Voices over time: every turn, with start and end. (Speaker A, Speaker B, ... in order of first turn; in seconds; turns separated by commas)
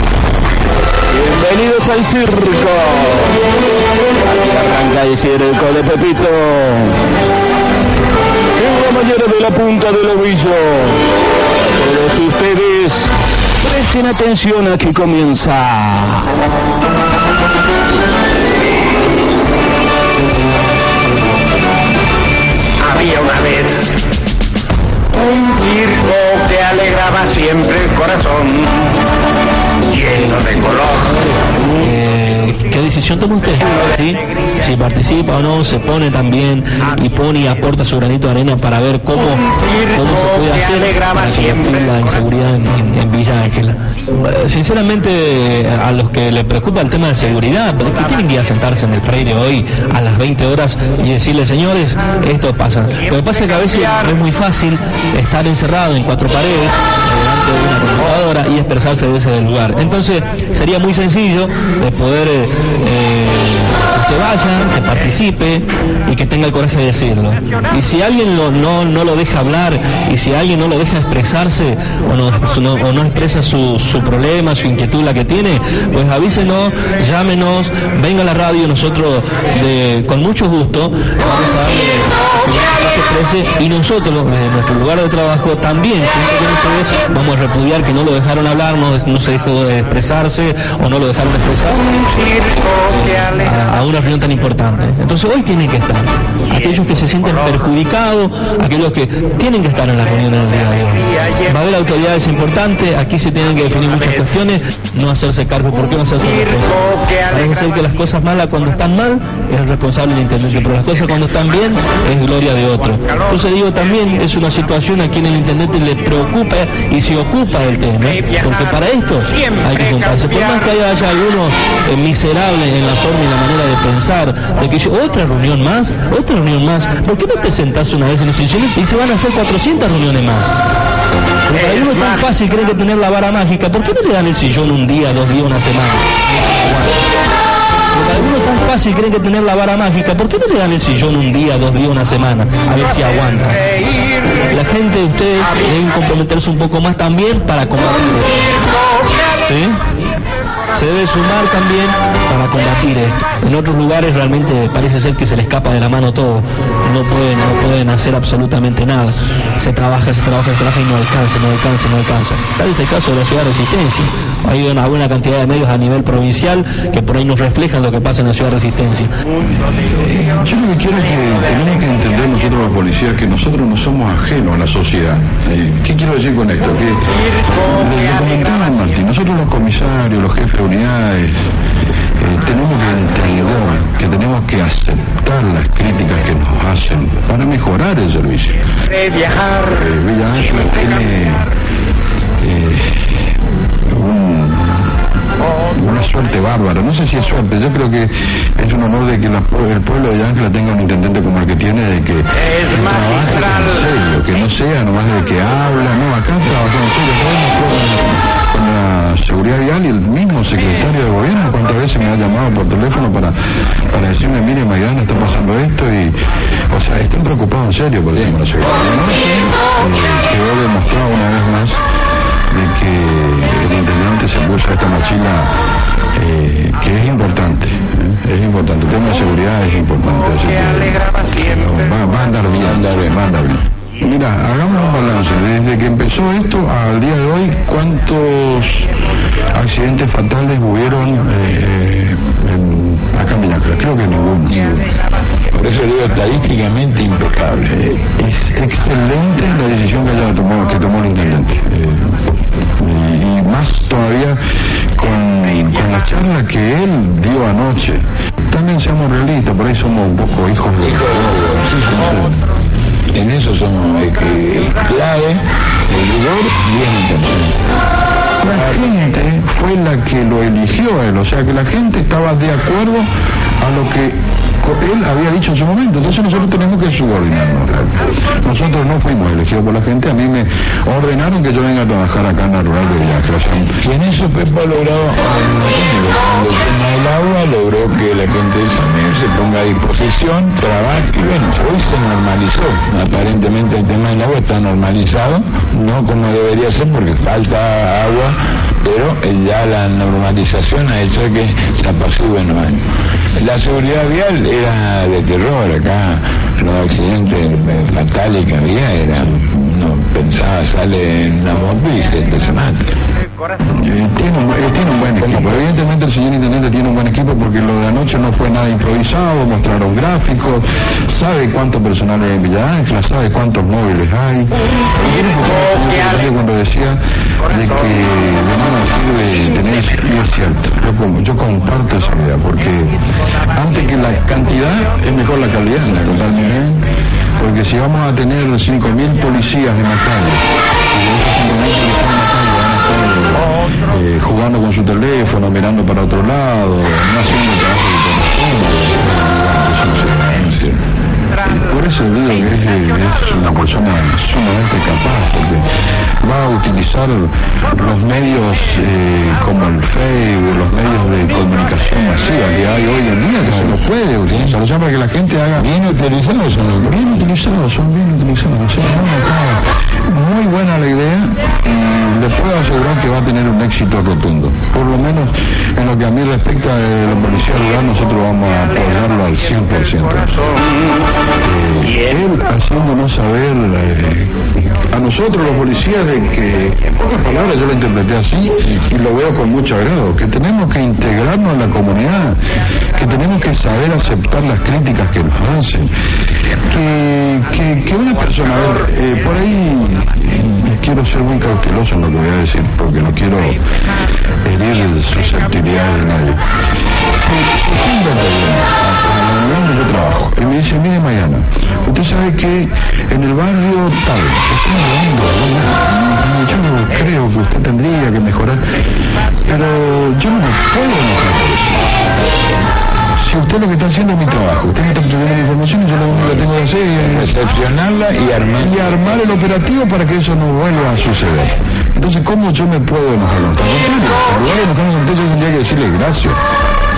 Speaker A: 1.1-3.4, Speaker A: 4.2-7.0, Speaker A: 8.6-11.0, Speaker A: 11.8-16.3, Speaker B: 22.8-23.9, Speaker B: 25.6-28.7, Speaker C: 30.3-30.8, Speaker C: 31.7-130.5, Speaker C: 131.5-136.9, Speaker C: 137.9-148.7, Speaker C: 149.4-149.8, Speaker C: 150.7-169.1, Speaker D: 169.8-181.5, Speaker D: 182.2-188.6, Speaker D: 189.5-191.5, Speaker D: 192.4-195.0, Speaker D: 195.7-213.4, Speaker D: 213.9-216.2, Speaker D: 216.7-221.8, Speaker E: 218.2-218.5, Speaker D: 222.5-225.6, Speaker D: 226.1-238.9, Speaker E: 232.6-233.1, Speaker D: 239.5-244.7, Speaker E: 245.5-247.8, Speaker D: 247.7-254.4, Speaker D: 255.0-262.4, Speaker E: 260.8-262.4, Speaker E: 263.1-267.6, Speaker D: 268.4-273.1, Speaker D: 273.6-283.8, Speaker E: 283.8-302.9, Speaker E: 303.4-312.9, Speaker D: 313.7-333.0, Speaker E: 315.2-315.6, Speaker D: 333.5-350.5, Speaker E: 335.9-336.6, Speaker E: 350.4-350.8, Speaker D: 351.4-355.7, Speaker D: 356.2-365.7, Speaker E: 363.4-364.5, Speaker E: 365.6-367.2, Speaker D: 366.8-380.5, Speaker D: 381.4-392.4, Speaker D: 392.9-395.9, Speaker D: 396.6-403.6, Speaker D: 404.4-406.4, Speaker D: 407.1-418.8, Speaker D: 419.4-421.9, Speaker D: 423.2-427.3, Speaker E: 426.1-429.3, Speaker D: 428.6-436.4